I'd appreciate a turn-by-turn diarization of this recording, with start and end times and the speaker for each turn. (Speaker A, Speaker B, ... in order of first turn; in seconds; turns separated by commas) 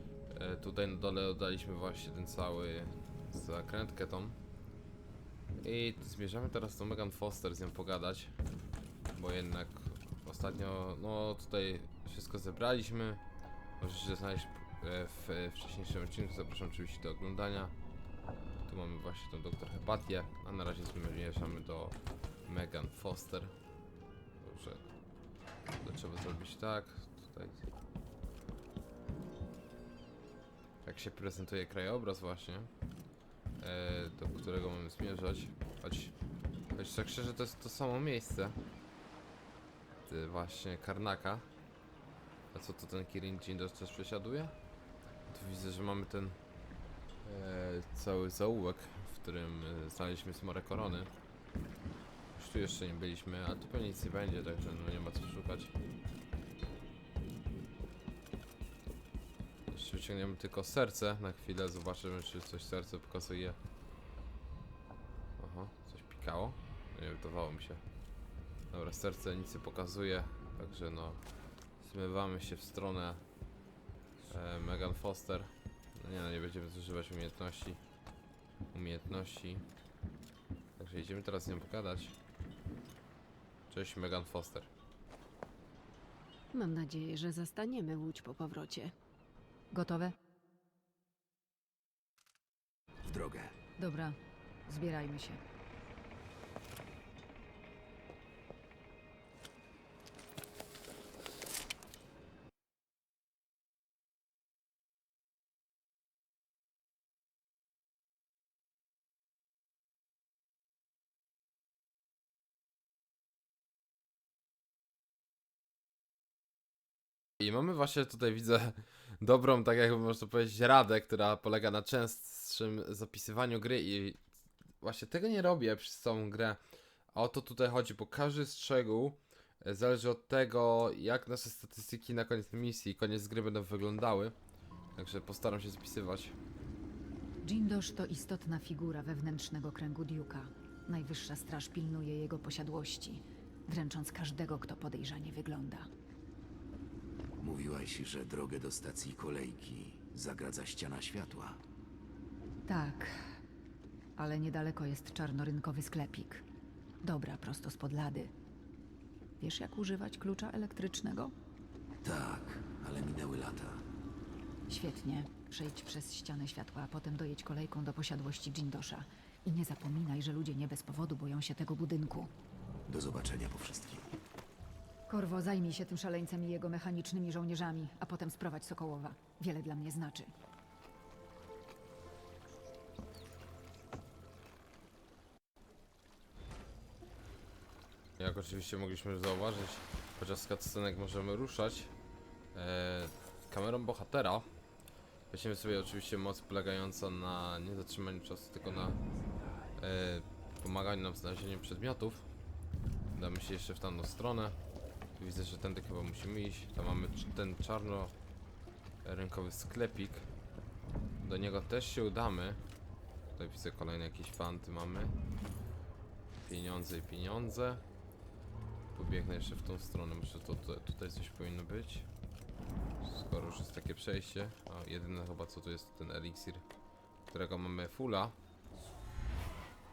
Speaker A: 0.3-4.4, Speaker A: 5.6-8.3, Speaker A: 9.1-13.2, Speaker A: 13.8-17.7, Speaker A: 18.6-23.5, Speaker A: 24.4-24.9, Speaker A: 25.8-27.7, Speaker A: 30.8-32.7, Speaker A: 33.6-36.1, Speaker A: 36.7-38.6, Speaker A: 40.1-41.5, Speaker A: 42.5-44.5, Speaker A: 45.3-46.4, Speaker A: 47.2-51.1, Speaker A: 52.3-55.7, Speaker A: 59.7-63.6, Speaker A: 65.4-67.8, Speaker A: 68.7-71.2, Speaker A: 71.8-73.2, Speaker A: 74.3-77.8, Speaker A: 78.7-79.6, Speaker A: 80.8-82.2, Speaker A: 83.7-84.7, Speaker B: 86.5-88.9, Speaker B: 89.7-90.1, Speaker C: 93.0-93.5, Speaker B: 93.8-95.4, Speaker A: 117.4-124.2, Speaker A: 124.8-126.6, Speaker A: 127.1-134.3, Speaker A: 134.9-136.3, Speaker B: 137.4-145.9, Speaker C: 147.4-151.6, Speaker B: 152.7-153.1, Speaker B: 154.2-156.4, Speaker B: 157.0-158.3, Speaker B: 159.4-161.3, Speaker C: 162.0-163.8, Speaker B: 164.7-172.3, Speaker C: 172.9-174.1, Speaker B: 175.1-180.3, Speaker A: 188.2-191.9, Speaker A: 192.5-194.5, Speaker A: 195.3-199.0, Speaker A: 199.8-202.3, Speaker A: 203.1-204.6, Speaker A: 205.2-208.1, Speaker A: 209.0-210.3, Speaker A: 211.2-212.6, Speaker A: 213.3-215.1, Speaker A: 216.4-217.8, Speaker A: 218.9-222.1, Speaker A: 223.0-226.6, Speaker A: 227.3-228.3